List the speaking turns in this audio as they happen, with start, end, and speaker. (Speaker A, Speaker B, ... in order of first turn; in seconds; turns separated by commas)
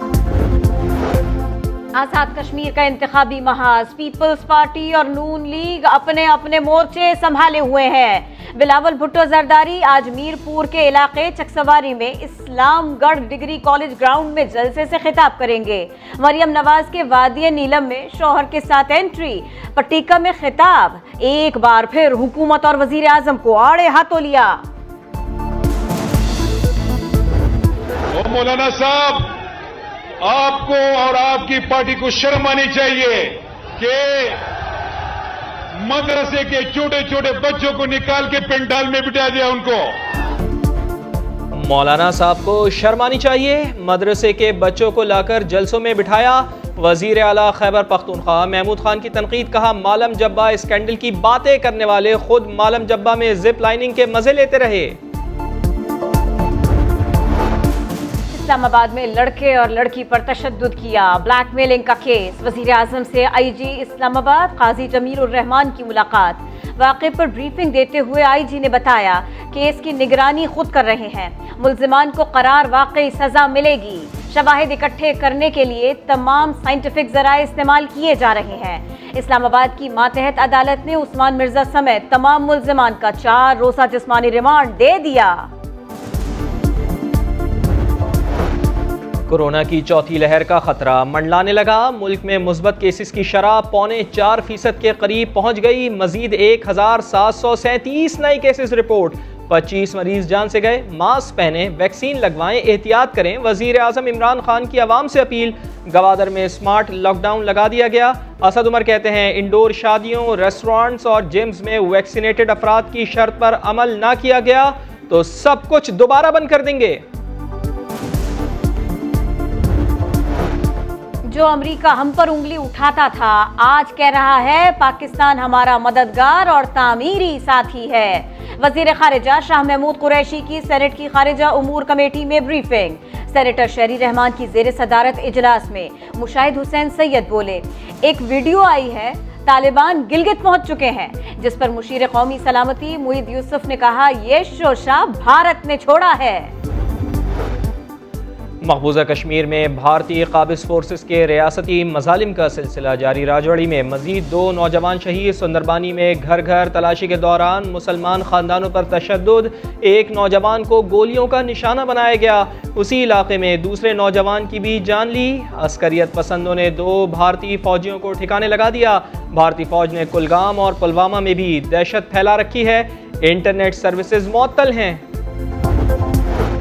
Speaker A: 1.9-24.6, Speaker B: 28.2-29.1, Speaker B: 30.3-33.2, Speaker B: 33.8-34.2, Speaker B: 35.9-39.8, Speaker C: 41.5-55.0, Speaker A: 58.3-85.5, Speaker C: 89.3-117.0, Speaker A: 121.2-146.5, Speaker C: 148.6-175.0